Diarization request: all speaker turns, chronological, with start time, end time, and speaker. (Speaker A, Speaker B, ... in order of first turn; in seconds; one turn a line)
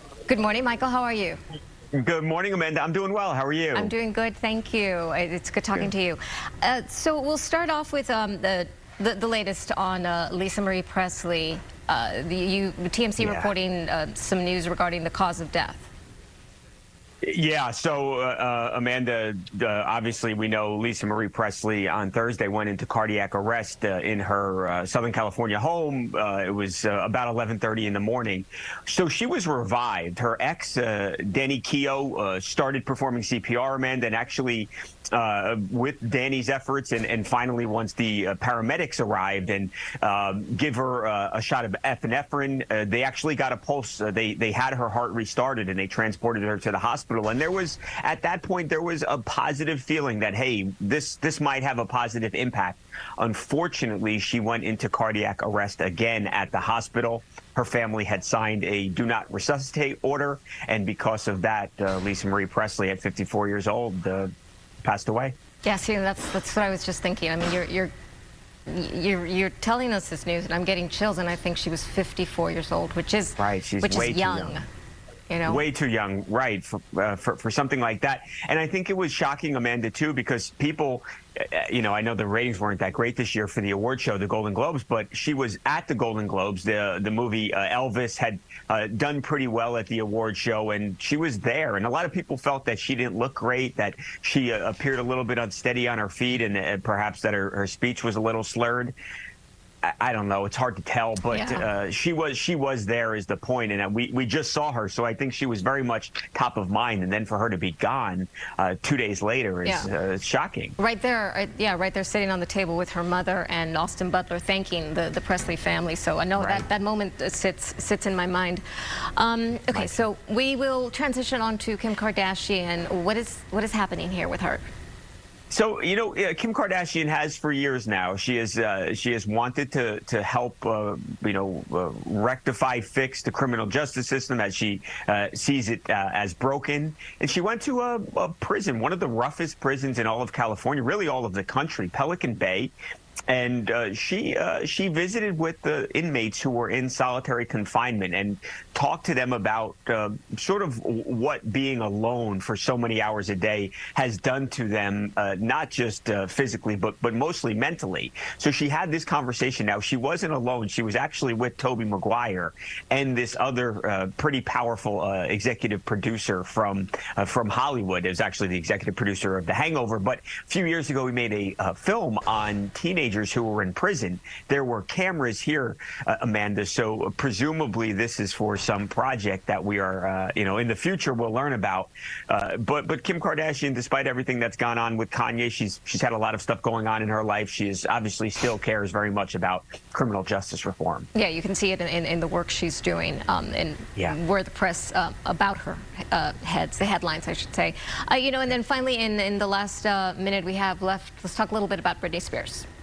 Speaker A: 0.3-1.4
Speaker B: 1.9-3.9
Speaker A: 3.8-15.9
Speaker B: 13.2-13.5
Speaker B: 17.2-64.3
Speaker B: 64.8-65.3
Speaker A: 65.6-67.9
Speaker A: 68.7-74.6
Speaker B: 73.4-74.5
Speaker A: 75.3-75.7
Speaker B: 75.5-98.9
Speaker B: 99.8-110.7
Speaker A: 101.3-101.7
Speaker A: 110.8-118.6
Speaker B: 116.4-116.6
Speaker A: 119.2-124.6
Speaker B: 125.5-142.7
Speaker B: 143.3-191.1
Speaker A: 191.2-202.7